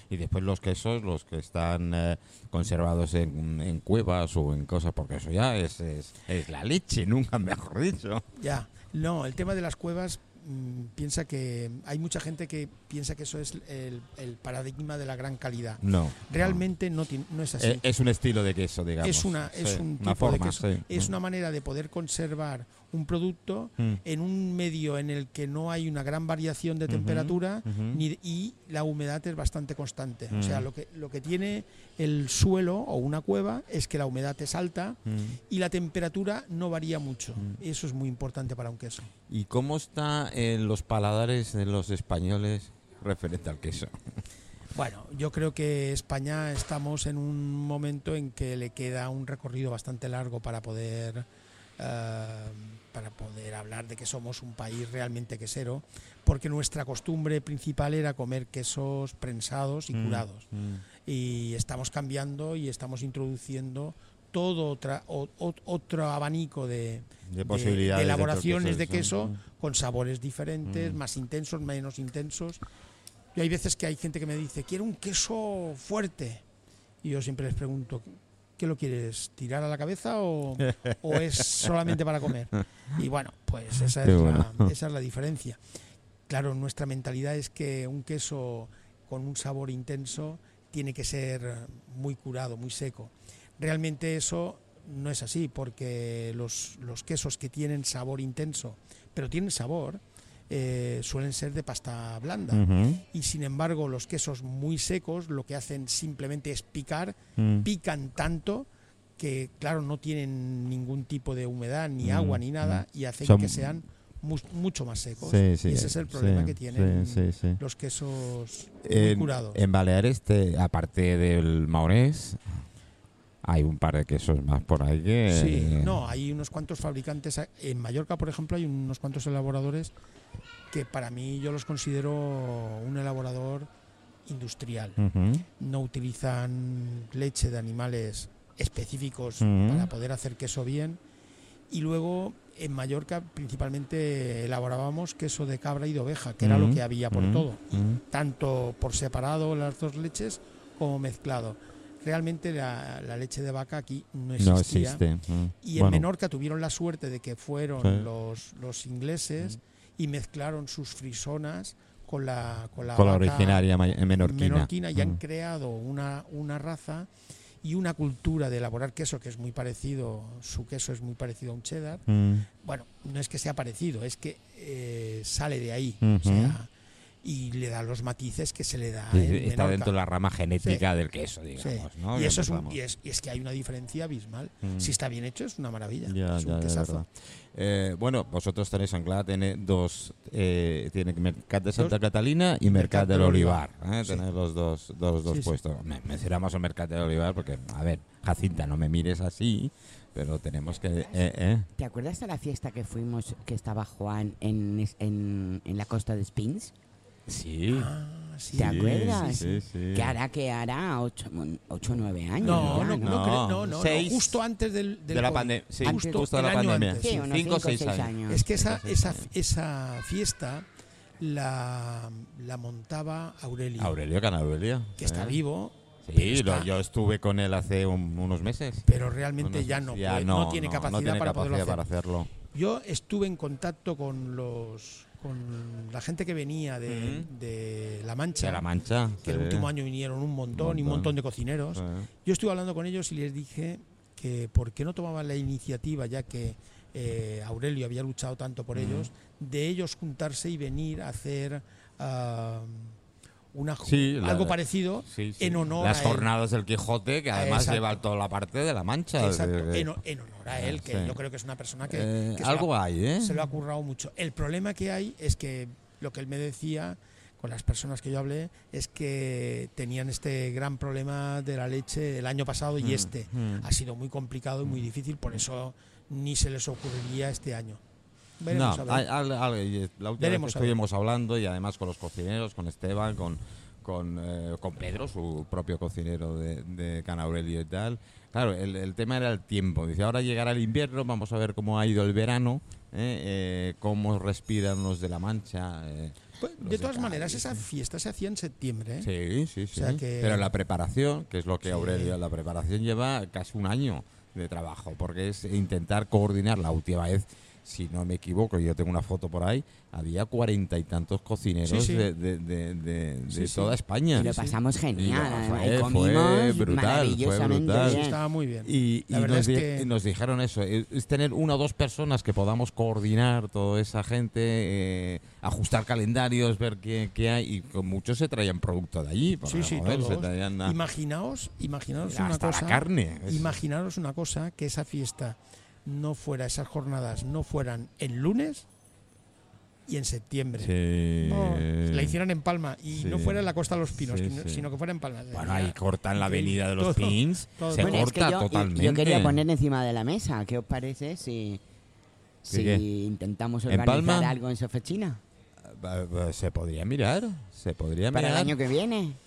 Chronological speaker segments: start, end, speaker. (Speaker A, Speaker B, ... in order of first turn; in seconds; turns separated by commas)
Speaker A: 0.1-8.2, Speaker B: 8.4-17.8, Speaker A: 15.8-16.6, Speaker A: 17.6-21.1, Speaker B: 19.0-35.0, Speaker A: 26.9-28.0, Speaker A: 30.3-30.7, Speaker A: 35.1-35.4, Speaker B: 35.5-39.1, Speaker A: 39.3-44.0, Speaker B: 44.7-51.2, Speaker B: 51.8-60.5, Speaker A: 59.9-60.8, Speaker B: 61.0-72.6, Speaker A: 67.3-69.3, Speaker A: 70.6-71.0, Speaker B: 73.3-76.4, Speaker B: 77.0-78.0, Speaker B: 78.6-85.6, Speaker A: 84.0-84.7, Speaker B: 86.3-108.7, Speaker A: 102.5-103.0, Speaker A: 107.4-107.7, Speaker B: 109.2-119.6, Speaker A: 112.0-113.8, Speaker A: 115.2-117.6, Speaker A: 118.8-122.4, Speaker A: 123.4-126.0, Speaker B: 125.3-129.9, Speaker B: 130.7-133.7, Speaker B: 134.2-135.0, Speaker A: 135.0-135.4, Speaker B: 135.6-141.0, Speaker A: 139.4-139.9, Speaker B: 141.7-155.0, Speaker A: 146.4-148.0, Speaker A: 154.4-156.1, Speaker B: 155.6-167.1, Speaker A: 157.8-158.1, Speaker A: 162.9-165.2, Speaker B: 167.6-172.0, Speaker A: 172.1-172.5, Speaker B: 172.6-176.7, Speaker A: 176.0-176.6, Speaker B: 177.2-179.9, Speaker A: 179.1-182.8, Speaker B: 181.6-187.0, Speaker A: 184.6-184.9, Speaker A: 186.1-201.7, Speaker B: 192.6-194.2, Speaker B: 195.2-195.5, Speaker C: 201.8-206.7, Speaker A: 207.3-207.9, Speaker B: 207.7-209.5, Speaker C: 208.5-213.1, Speaker A: 208.6-210.2, Speaker A: 212.4-214.4, Speaker B: 212.4-217.2, Speaker A: 215.1-219.2, Speaker C: 215.8-216.2, Speaker C: 217.0-218.4, Speaker B: 218.3-220.7, Speaker B: 221.2-224.0, Speaker A: 223.8-225.4, Speaker B: 225.0-226.7, Speaker A: 226.1-232.3, Speaker B: 228.8-231.8, Speaker B: 232.5-238.7, Speaker A: 236.9-237.3, Speaker A: 238.4-239.7, Speaker B: 239.2-252.9, Speaker A: 240.5-241.1, Speaker A: 241.7-242.1, Speaker A: 248.7-249.1, Speaker B: 253.5-256.3, Speaker A: 253.8-259.9, Speaker B: 257.3-258.0, Speaker B: 259.2-277.8, Speaker A: 260.5-261.1, Speaker A: 261.8-263.5, Speaker A: 272.8-273.6, Speaker B: 278.4-279.0, Speaker A: 278.5-297.6, Speaker B: 280.2-280.7, Speaker B: 296.4-299.1, Speaker A: 299.0-314.3, Speaker B: 299.7-300.5, Speaker B: 301.6-302.1, Speaker B: 311.6-312.1, Speaker B: 313.4-314.6, Speaker C: 314.1-318.1, Speaker A: 314.9-318.0, Speaker B: 317.7-319.9, Speaker A: 318.6-330.8, Speaker B: 329.4-338.6, Speaker A: 332.1-333.6, Speaker B: 339.9-348.1, Speaker A: 340.6-342.1, Speaker A: 342.9-343.4, Speaker A: 343.9-344.7, Speaker A: 345.3-349.4, Speaker C: 347.8-351.6, Speaker C: 352.4-355.2, Speaker A: 352.5-352.8, Speaker A: 353.7-354.3, Speaker A: 355.6-358.5, Speaker C: 358.1-359.2